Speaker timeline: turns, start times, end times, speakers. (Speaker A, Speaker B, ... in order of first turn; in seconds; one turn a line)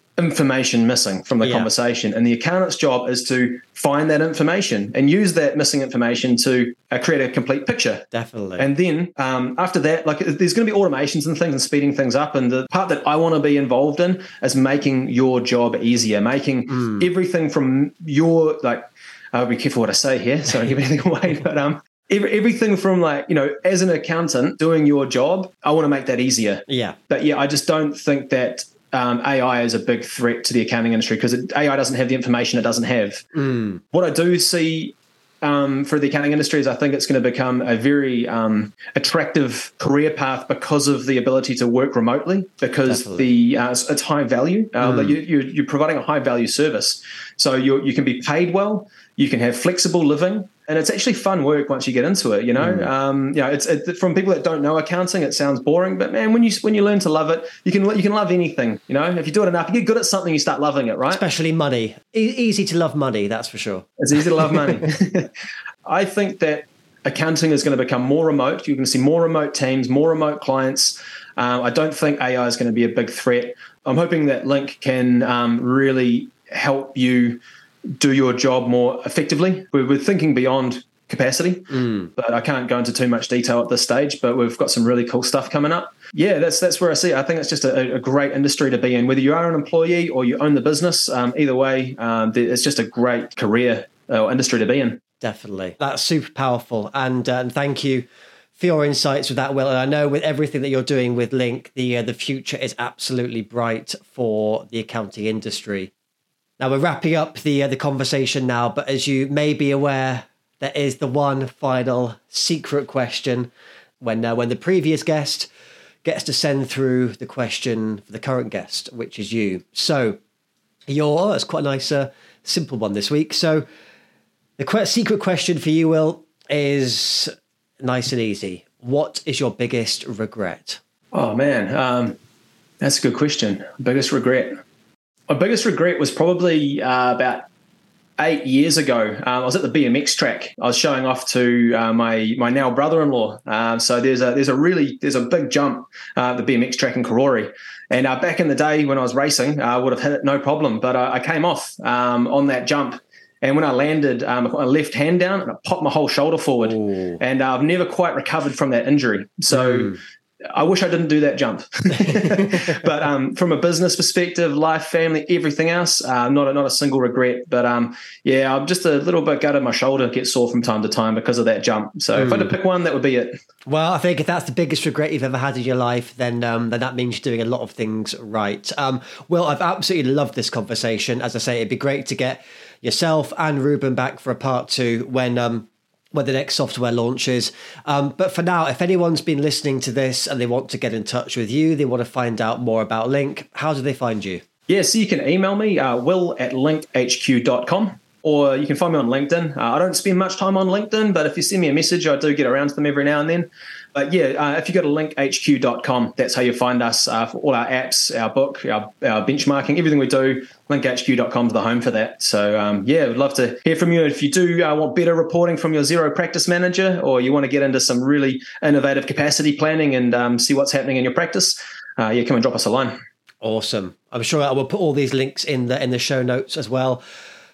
Speaker A: 0.2-8.1
Speaker B: 1.4-1.7
Speaker B: 8.1-8.7
Speaker A: 8.6-33.2
Speaker B: 16.7-17.1
Speaker B: 26.7-27.0
Speaker B: 33.3-33.8
Speaker A: 33.9-61.2
Speaker B: 42.9-43.3
Speaker B: 44.8-45.2
Speaker B: 52.6-52.9
Speaker B: 61.1-64.8
Speaker A: 64.0-65.3
Speaker A: 65.9-77.4
Speaker A: 78.0-95.0
Speaker B: 81.7-82.1
Speaker B: 95.2-98.0
Speaker B: 98.6-105.9
Speaker B: 106.6-113.5
Speaker B: 114.0-115.5
Speaker B: 116.0-120.2
Speaker B: 120.9-123.6
Speaker B: 124.6-130.8
Speaker A: 131.1-132.2
Speaker A: 132.8-134.6
Speaker A: 135.3-137.5
Speaker A: 138.2-160.0
Speaker B: 156.7-157.2
Speaker B: 159.5-160.0
Speaker A: 160.5-173.4
Speaker B: 162.1-162.7
Speaker B: 172.2-172.5
Speaker B: 173.7-194.4
Speaker A: 194.7-222.9
Speaker B: 223.4-227.0